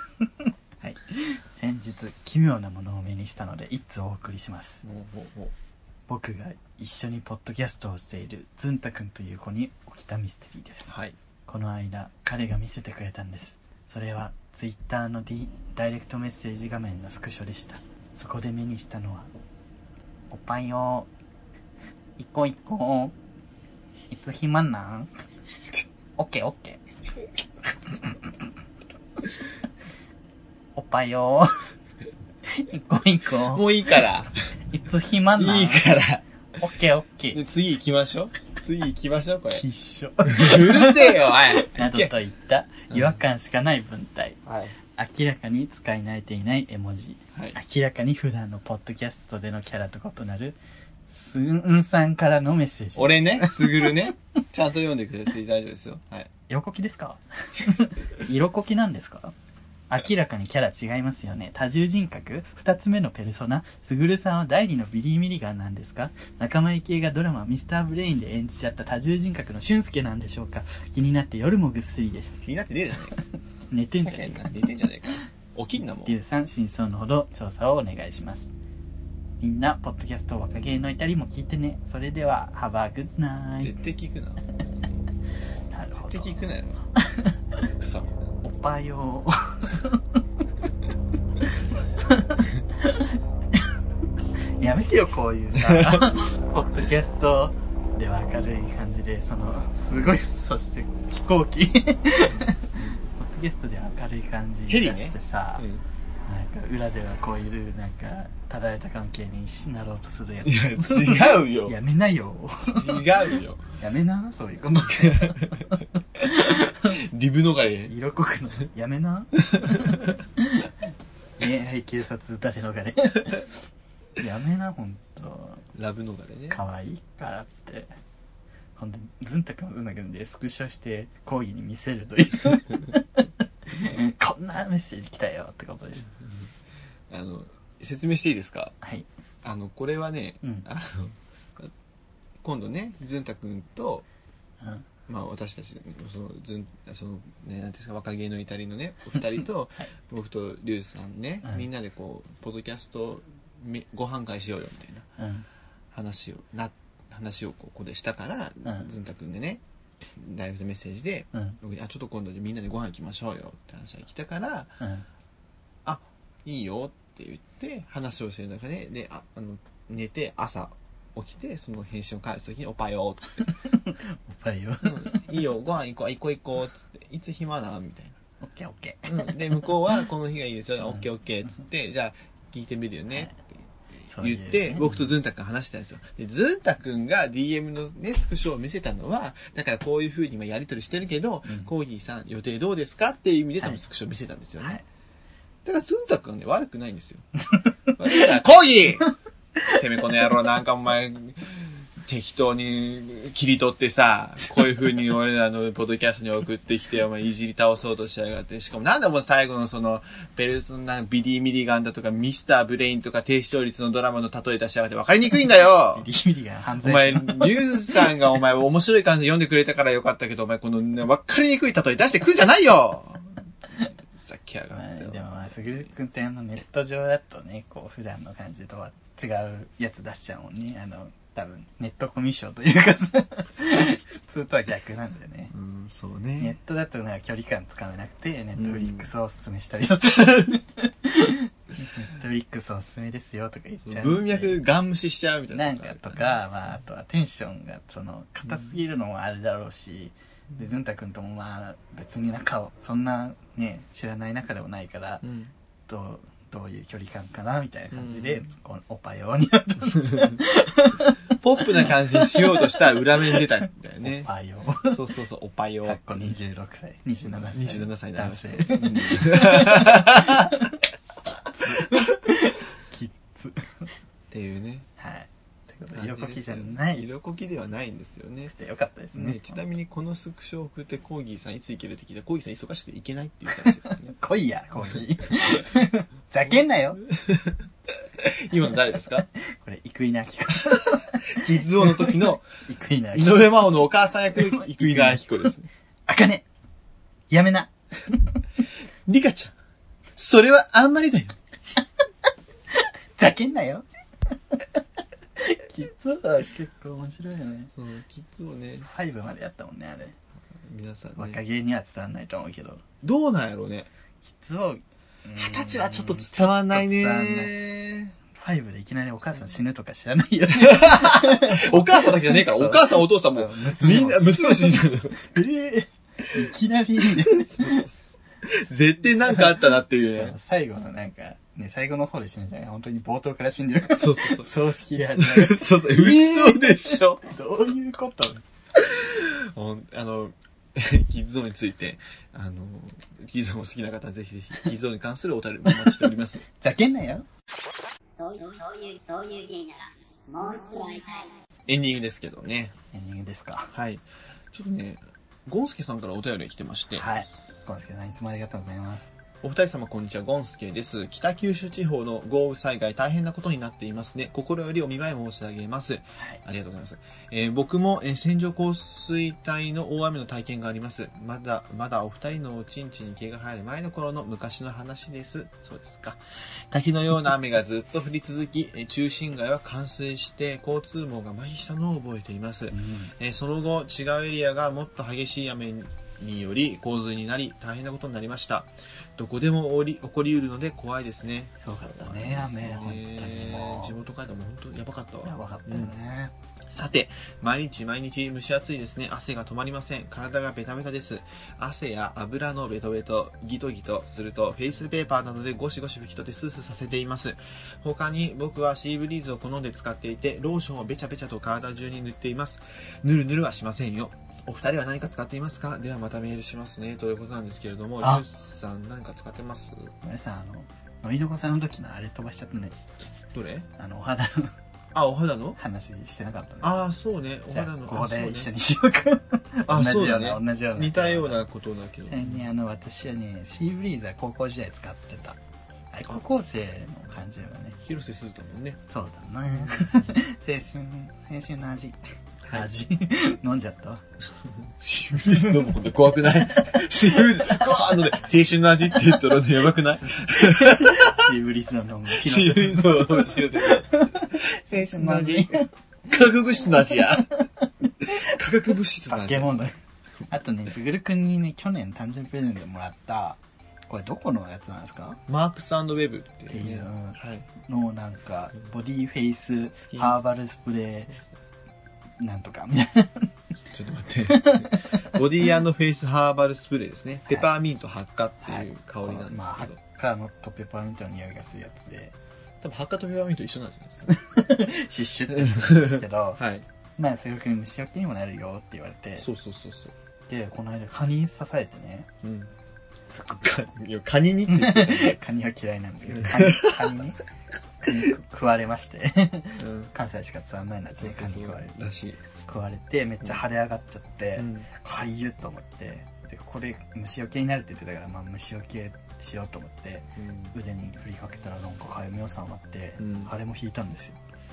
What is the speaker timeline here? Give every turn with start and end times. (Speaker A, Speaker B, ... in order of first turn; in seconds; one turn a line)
Speaker A: 0.2-4.8
Speaker B: 4.8-5.5
Speaker A: 6.1-11.0
Speaker B: 10.9-11.2
Speaker A: 11.5-19.3
Speaker A: 20.3-21.1
Speaker A: 22.2-23.2
Speaker A: 24.1-25.1
Speaker A: 26.2-26.8
Speaker A: 30.8-31.7
Speaker A: 32.5-34.1
Speaker B: 33.5-34.4
Speaker A: 34.7-36.0
Speaker B: 35.4-36.2
Speaker A: 36.6-37.4
Speaker B: 37.3-39.6
Speaker A: 39.5-54.1
Speaker B: 40.2-42.1
Speaker B: 42.9-43.2
Speaker B: 44.5-44.8
Speaker B: 53.0-56.3
Speaker A: 56.5-59.4
Speaker A: 59.9-72.4
Speaker B: 72.4-73.2
Speaker A: 73.7-74.6
Speaker B: 74.0-76.2
Speaker A: 76.0-78.5
Speaker A: 79.4-83.8
Speaker B: 83.6-84.4
Speaker A: 85.7-86.3
Speaker B: 85.9-86.8
Speaker A: 87.0-87.7
Speaker B: 87.8-88.4
Speaker A: 88.4-90.2
Speaker A: 92.0-93.8
Speaker A: 94.6-105.7
Speaker B: 95.6-96.1
Speaker B: 102.3-103.0
Speaker B: 104.7-105.8
Speaker A: 106.3-113.2
Speaker B: 110.5-111.8
Speaker B: 112.6-113.7
Speaker A: 113.8-117.0
Speaker B: 115.0-115.7
Speaker B: 116.9-117.9
Speaker A: 117.9-120.7
Speaker B: 119.5-120.2
Speaker A: 121.4-123.5
Speaker A: 124.2-125.7
Speaker B: 125.7-126.6
Speaker A: 126.5-127.9
Speaker A: 128.8-136.1
Speaker B: 136.1-136.5
Speaker B: 137.1-138.8
Speaker A: 138.8-139.1
Speaker B: 139.4-141.7
Speaker B: 142.4-144.1
Speaker A: 144.6-144.9
Speaker B: 145.1-155.1
Speaker A: 155.2-155.5
Speaker B: 155.9-159.6
Speaker A: 158.6-158.9
Speaker B: 160.1-164.8
Speaker A: 161.3-161.6
Speaker A: 164.8-165.1
Speaker B: 165.8-173.5
Speaker A: 173.5-175.2
Speaker B: 174.8-178.2
Speaker A: 178.4-180.0
Speaker B: 179.1-194.8
Speaker A: 184.1-185.1
Speaker B: 195.7-197.3
Speaker A: 197.5-198.2
Speaker B: 198.0-199.1
Speaker A: 199.6-200.3
Speaker B: 199.7-216.1
Speaker A: 215.9-218.2
Speaker B: 216.8-223.3
Speaker B: 224.2-225.9
Speaker A: 224.8-235.5
Speaker B: 235.5-236.6
Speaker A: 236.4-244.6
Speaker B: 238.6-239.1
Speaker B: 243.8-246.4
Speaker A: 245.5-255.2
Speaker B: 248.5-248.7
Speaker B: 255.2-255.5
Speaker A: 255.9-263.5
Speaker B: 257.9-258.4
Speaker B: 259.8-260.4
Speaker B: 261.3-264.3
Speaker A: 264.0-265.0
Speaker B: 264.8-266.0
Speaker A: 265.9-270.8
Speaker B: 267.4-270.6
Speaker A: 271.5-273.9
Speaker B: 271.6-272.0
Speaker B: 274.3-274.9
Speaker A: 275.0-277.1
Speaker B: 275.9-278.5
Speaker A: 278.5-279.6
Speaker B: 279.1-284.1
Speaker A: 283.6-287.0
Speaker B: 285.4-285.6
Speaker B: 287.2-287.6
Speaker B: 288.2-289.3
Speaker A: 289.4-293.7
Speaker B: 290.6-292.5
Speaker B: 293.1-295.7
Speaker A: 294.3-295.5
Speaker A: 296.1-296.4
Speaker A: 297.3-298.3
Speaker B: 299.1-299.6
Speaker B: 300.2-301.4
Speaker A: 302.7-304.8
Speaker A: 305.4-307.7
Speaker B: 307.7-308.9
Speaker A: 308.8-310.2
Speaker B: 310.6-311.4
Speaker A: 311.2-312.8
Speaker B: 313.0-313.9
Speaker A: 314.2-317.6
Speaker B: 315.4-318.1
Speaker A: 318.4-327.8
Speaker B: 320.5-325.3
Speaker B: 327.3-330.4
Speaker A: 329.3-338.4
Speaker B: 333.9-337.2
Speaker B: 338.8-346.4
Speaker A: 345.7-347.3
Speaker C: 348.2-351.4
Speaker B: 351.7-352.7
Speaker A: 352.9-353.7
Speaker B: 353.7-357.2
Speaker A: 357.0-359.1
Speaker B: 359.4-395.9
Speaker A: 382.7-383.1
Speaker A: 391.6-394.0
Speaker A: 395.2-396.3
Speaker B: 396.7-419.9
Speaker A: 420.0-422.8
Speaker B: 423.3-423.7
Speaker A: 423.8-424.6
Speaker B: 424.9-425.6
Speaker A: 425.6-426.8
Speaker B: 426.6-428.5
Speaker A: 427.5-431.4
Speaker B: 429.7-432.5
Speaker A: 432.1-435.4
Speaker A: 435.9-437.8
Speaker B: 437.8-438.8
Speaker A: 438.9-442.0
Speaker B: 439.6-440.1
Speaker A: 442.5-444.0
Speaker B: 444.7-451.3
Speaker A: 445.5-445.7
Speaker A: 446.6-447.9
Speaker A: 449.8-455.7
Speaker B: 452.2-457.4
Speaker A: 456.8-458.2
Speaker B: 458.0-459.7
Speaker A: 459.1-459.7
Speaker A: 460.3-465.2
Speaker B: 465.3-467.5
Speaker A: 466.5-471.1
Speaker B: 469.7-470.2
Speaker A: 472.2-473.3
Speaker B: 473.7-479.8
Speaker A: 474.3-475.2
Speaker A: 478.4-482.1
Speaker B: 482.6-484.1
Speaker A: 484.1-486.4
Speaker B: 485.3-486.7
Speaker A: 487.0-489.3
Speaker B: 489.2-489.9
Speaker A: 490.3-492.1
Speaker B: 492.2-492.5
Speaker A: 493.1-493.4
Speaker B: 493.4-495.2
Speaker A: 494.5-497.2
Speaker B: 496.1-496.9
Speaker A: 497.8-501.8
Speaker B: 499.6-499.9
Speaker B: 500.9-502.2
Speaker A: 502.5-514.2
Speaker B: 504.4-504.7
Speaker B: 510.2-510.6
Speaker B: 513.0-513.3